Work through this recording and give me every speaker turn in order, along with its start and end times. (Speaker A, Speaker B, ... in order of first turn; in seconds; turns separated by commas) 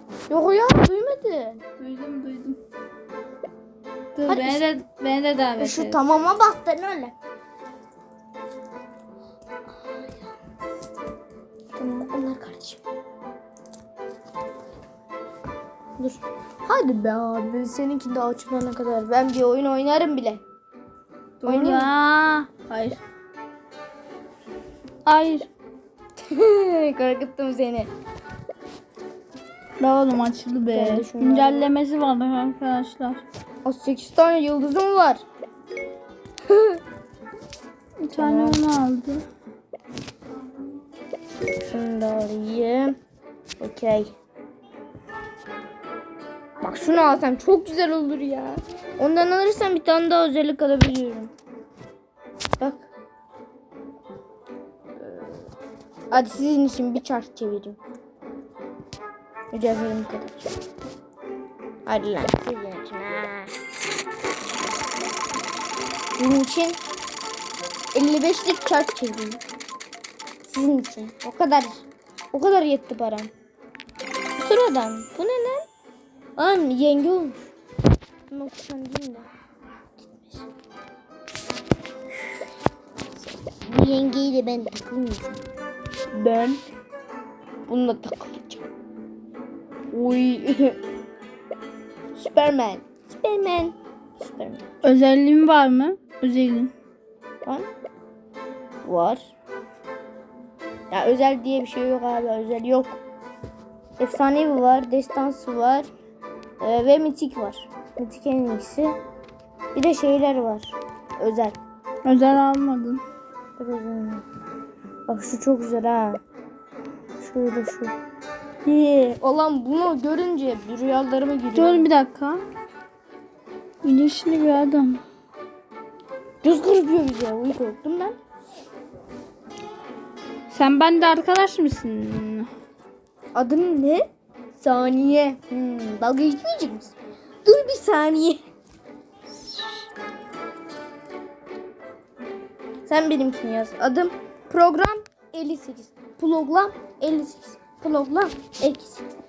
Speaker A: 0.3-1.6, Speaker B: 1.8-2.6, Speaker B: 4.1-6.0, Speaker A: 4.2-4.7, Speaker A: 5.6-7.1, Speaker A: 11.7-12.8, Speaker A: 16.0-20.4, Speaker B: 21.4-23.0, Speaker A: 21.4-21.9, Speaker B: 25.1-25.5, Speaker A: 26.2-27.9, Speaker B: 29.8-33.2, Speaker A: 30.7-31.7, Speaker A: 33.6-35.2, Speaker A: 36.5-36.8, Speaker B: 38.0-39.2, Speaker A: 38.1-38.6, Speaker A: 41.6-43.0, Speaker A: 43.6-44.1, Speaker A: 46.6-51.3, Speaker B: 46.6-47.2, Speaker A: 52.6-52.9, Speaker A: 55.0-55.4, Speaker A: 56.1-57.8, Speaker A: 59.5-60.5, Speaker A: 61.9-63.5, Speaker A: 66.2-66.8, Speaker A: 67.9-69.4, Speaker A: 70.5-73.3, Speaker A: 74.4-75.7, Speaker A: 76.4-77.5, Speaker A: 78.3-79.3, Speaker A: 80.0-80.5, Speaker A: 83.7-85.4, Speaker A: 86.1-86.6, Speaker A: 87.7-88.6, Speaker A: 89.9-90.8, Speaker A: 92.1-94.6, Speaker B: 94.8-96.7, Speaker A: 98.8-99.2, Speaker A: 100.9-103.0, Speaker A: 104.0-105.9, Speaker A: 106.6-109.0, Speaker A: 109.7-111.6, Speaker B: 112.0-113.0, Speaker A: 113.6-114.2, Speaker A: 115.1-116.2, Speaker A: 117.2-117.9, Speaker A: 118.6-121.9, Speaker B: 121.5-122.4, Speaker B: 123.8-125.0, Speaker A: 126.4-128.2, Speaker B: 130.5-132.5, Speaker A: 133.3-138.4, Speaker A: 142.8-149.1